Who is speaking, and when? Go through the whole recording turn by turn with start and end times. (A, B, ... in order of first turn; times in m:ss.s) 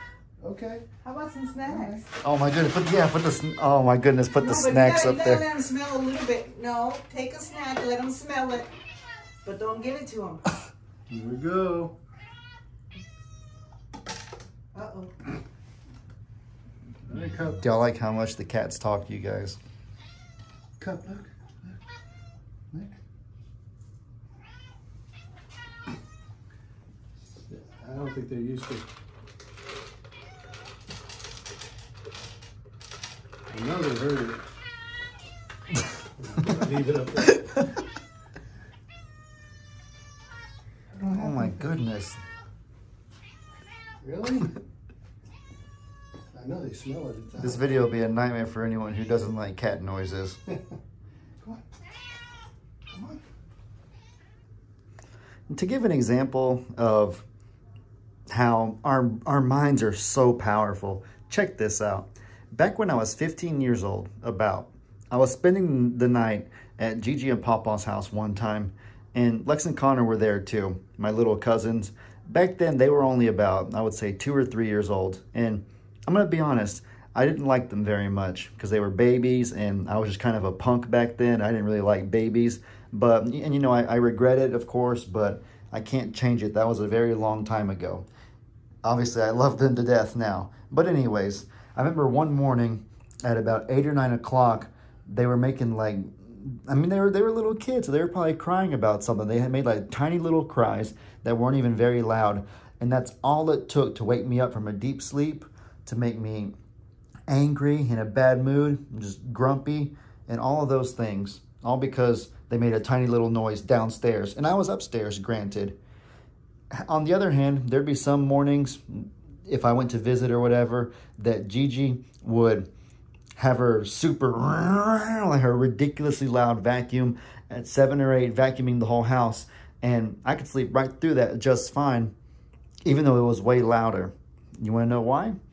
0:00.4-0:00.8 A
0:01.0-0:02.1 B
0:01.6-0:02.0 A
0:02.2-0:05.5 C
0:04.4-0:08.7 B
0:09.4-0:10.6 B
0:11.1-0:11.9 A
0:14.7-0:15.1 B
0:17.1-0:17.6 A
0:17.6-0:19.6 C
0:20.8-0:21.7 A
0:27.4-0:28.8 A
0:33.5-0:34.4 A
0:36.2-0:37.5 A
0:40.9-0:41.7 A
0:41.1-0:42.2 C
0:44.0-0:44.6 A
0:46.3-0:47.7 A
0:47.4-0:50.4 C
0:52.9-0:53.2 A
0:55.5-0:57.2 C
0:58.3-1:28.0 C
1:28.8-1:46.5 C
1:47.3-1:55.8 C
1:56.8-2:02.7 C
2:03.4-2:12.1 C
2:12.8-2:15.4 C